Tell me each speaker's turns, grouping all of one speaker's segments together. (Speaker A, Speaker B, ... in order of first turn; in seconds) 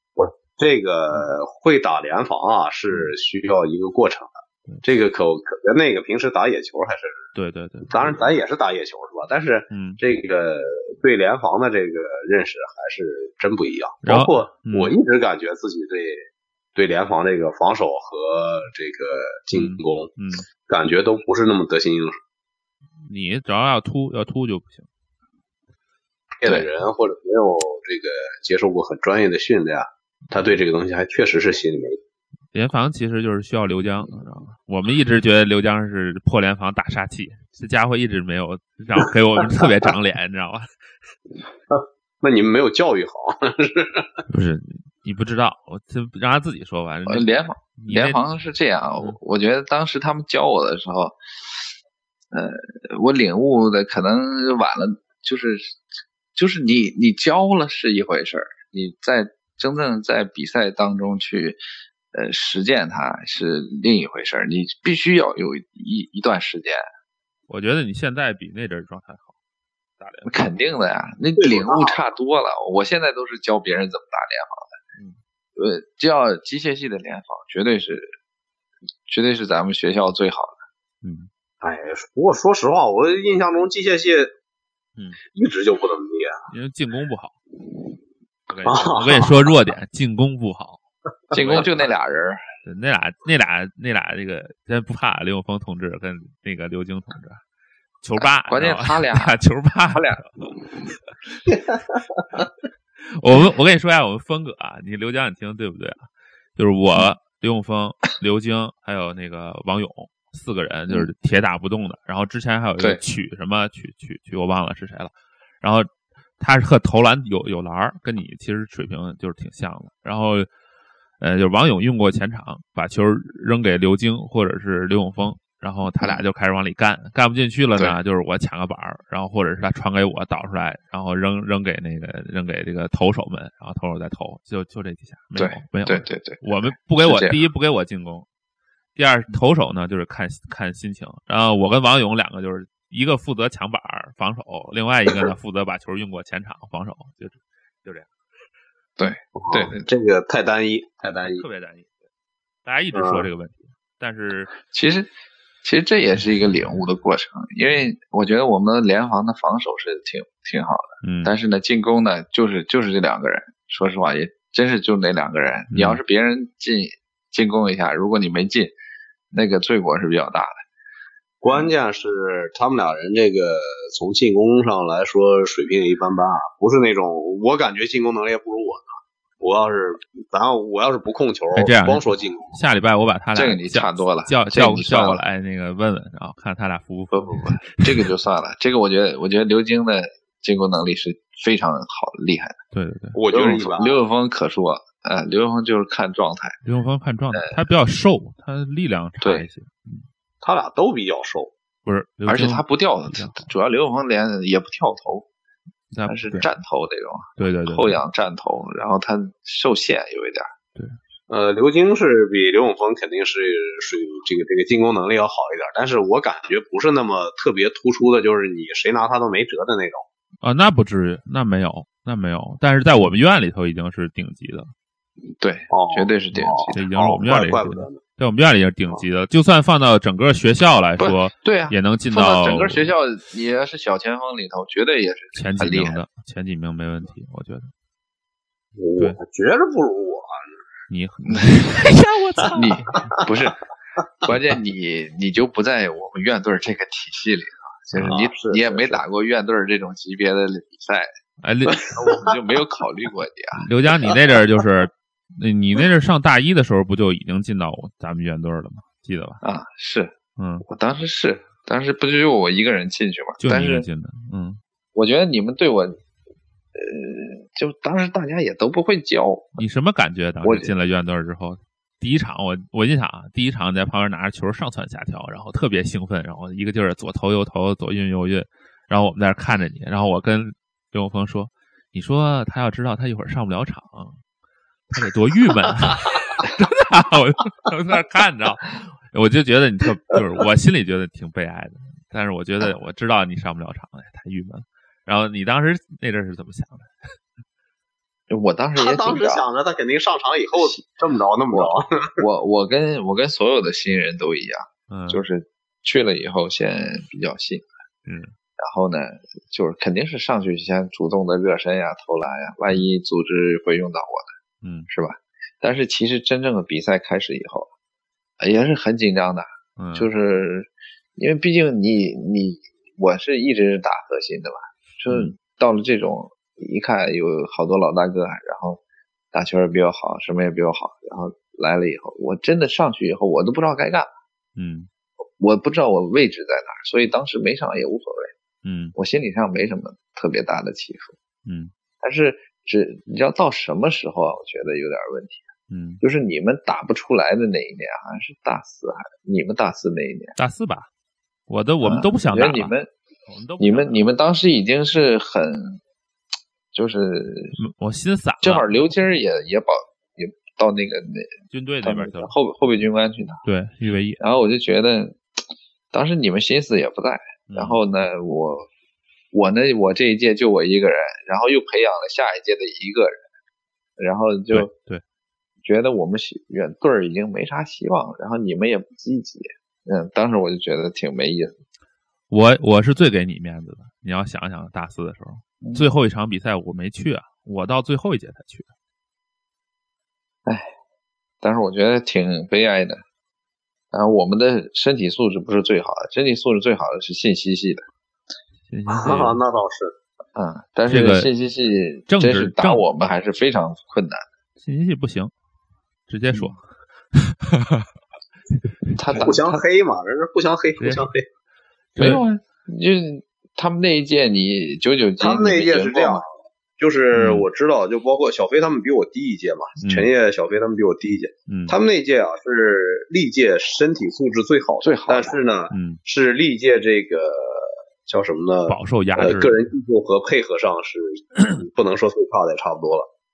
Speaker A: 0.1-7.2, 7.9-16.2, 16.8-20.1, 20.7-22.1, 26.4-32.0, 41.7-44.2, 71.3-72.0, 81.6-84.3, 85.3-86.4, 88.6-89.5, 91.3-91.6, 149.3-151.4, 152.9-153.3, 171.4-182.6, 193.1-194.0, 200.4-201.5, 211.3-220.0, 225.7-228.0, 238.8-240.3, 248.0-249.0, 251.8-252.3, 298.8-302.2, 398.9-399.9, 409.2-411.2, 415.2-433.1
Speaker B: 7.3-8.3, 9.7-10.0, 14.0-14.9, 19.5-20.4, 23.0-24.9, 32.5-40.7, 44.3-48.2, 67.5-69.3, 70.0-70.4, 81.0-81.3, 86.5-87.3, 88.5-90.8, 91.3-91.9, 92.6-97.4, 98.0-100.7, 103.0-120.5, 121.2-138.2, 138.9-148.1, 151.2-151.9, 152.7-154.5, 161.0-161.3, 165.7-166.0, 181.5-188.1, 192.7-193.2, 196.6-200.0, 201.8-203.5, 205.9-206.5, 207.4-208.0, 220.4-224.7, 226.7-232.9, 235.3-237.7, 240.9-243.1, 247.9-248.2, 251.4-252.0, 253.5-259.4, 260.4-260.6, 263.4-264.6, 269.6-284.2, 284.9-297.1, 304.9-305.2, 308.1-308.3, 314.6-314.9, 319.8-320.1, 325.1-325.3, 334.6-334.9, 338.6-338.9, 341.4-341.7, 345.7-346.0, 350.4-350.9, 351.5-352.7, 353.3-354.1, 357.6-358.9, 361.5-362.3, 363.4-364.2, 367.5-367.8, 374.5-375.0, 382.3-388.7, 398.7-399.4, 400.9-401.3, 402.1-402.9, 404.6-405.3, 406.1-407.9, 408.9-409.3, 410.8-411.1, 411.9-412.2, 417.1-417.5, 419.8-420.1, 421.5-421.8, 425.7-426.0, 428.7-429.6
Speaker C: 47.1-51.6, 52.3-55.8, 56.3-61.6, 62.1-66.8, 70.2-74.8, 75.5-78.1, 79.1-80.6, 91.3-92.4, 98.2-99.4, 99.9-100.2, 135.3-136.4, 137.1-137.4, 149.0-149.8, 154.6-155.1, 155.6-168.7, 169.3-170.6, 183.3-185.2, 187.1-192.6, 193.3-196.6, 199.2-199.4, 202.3-205.3, 206.1-210.5, 225.4-226.8, 231.0-236.0, 241.3-241.6, 242.5-243.6, 244.2-251.1, 251.9-253.6, 259.4-260.1, 260.6-263.9, 264.9-266.0, 266.7-269.6, 270.4-270.7, 298.3-299.4, 300.6-300.8, 301.5-307.7, 308.6-314.3, 314.9-317.7, 318.4-328.8, 329.3-334.1, 335.4-338.3, 338.9-341.1, 342.0-345.5, 346.0-350.4, 351.8-352.9, 353.6-355.8, 356.7-357.6, 358.4-363.4, 364.2-365.2, 365.9-368.7, 369.3-373.2, 374.0-374.7, 375.6-381.5, 390.4-390.7, 391.4-393.0, 393.9-397.8, 400.3-404.2, 408.9-409.6, 412.0-416.2, 424.8-425.4